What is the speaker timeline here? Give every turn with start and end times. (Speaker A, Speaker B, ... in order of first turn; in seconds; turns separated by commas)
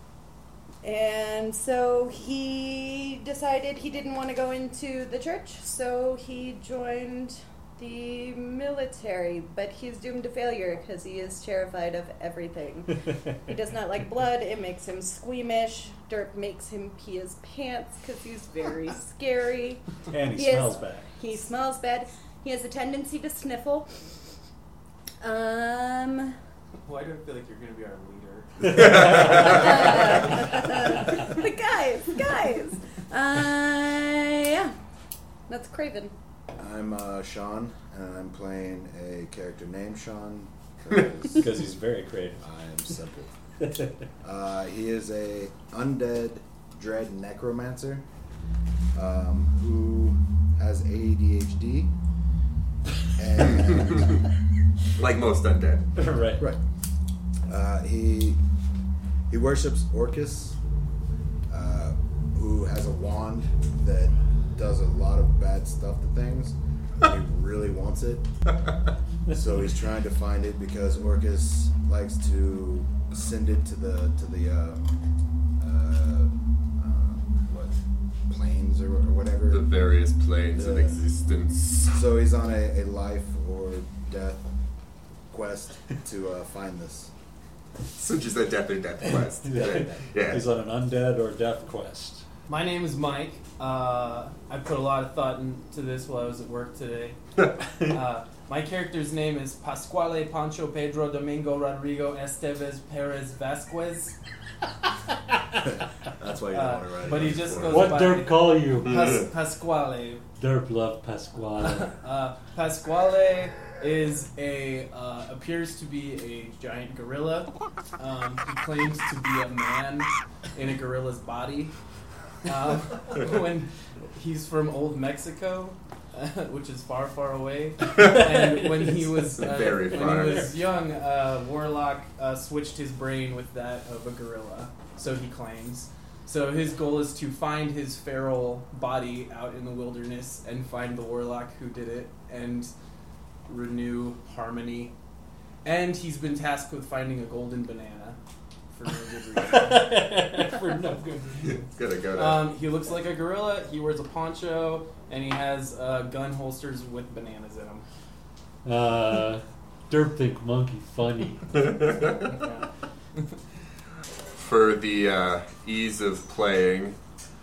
Speaker A: 0.8-23.9, Speaker B: 20.1-21.1, Speaker A: 25.2-26.4, Speaker C: 26.8-30.3, Speaker A: 29.4-34.7, Speaker A: 35.5-36.1, Speaker D: 36.6-41.5, Speaker B: 41.4-42.4, Speaker D: 42.4-43.3, Speaker D: 44.2-48.0, Speaker D: 48.9-51.9, Speaker D: 53.1-54.2, Speaker E: 53.4-54.2, Speaker E: 55.0-55.9, Speaker B: 56.0-56.5, Speaker D: 57.5-58.4, Speaker D: 59.3-60.5, Speaker D: 61.5-68.2, Speaker D: 69.3-74.9, Speaker D: 75.6-77.8, Speaker D: 78.3-79.6, Speaker E: 79.5-82.0, Speaker D: 80.5-81.0, Speaker D: 81.9-84.5, Speaker D: 85.3-87.1, Speaker E: 87.9-90.5, Speaker B: 89.4-92.2, Speaker D: 89.5-90.0, Speaker C: 92.5-97.2, Speaker C: 97.8-104.2, Speaker D: 105.6-108.0, Speaker C: 106.5-110.2, Speaker B: 107.7-109.2, Speaker B: 110.4-111.9, Speaker C: 111.6-121.7, Speaker C: 122.4-142.7, Speaker E: 127.9-128.5, Speaker E: 129.3-130.5, Speaker C: 143.5-144.9, Speaker C: 145.6-148.2, Speaker C: 148.7-150.0, Speaker B: 149.5-151.5, Speaker E: 151.5-152.5, Speaker C: 152.1-157.8, Speaker B: 158.6-161.6, Speaker E: 161.6-162.2, Speaker C: 162.3-162.7, Speaker E: 164.4-166.9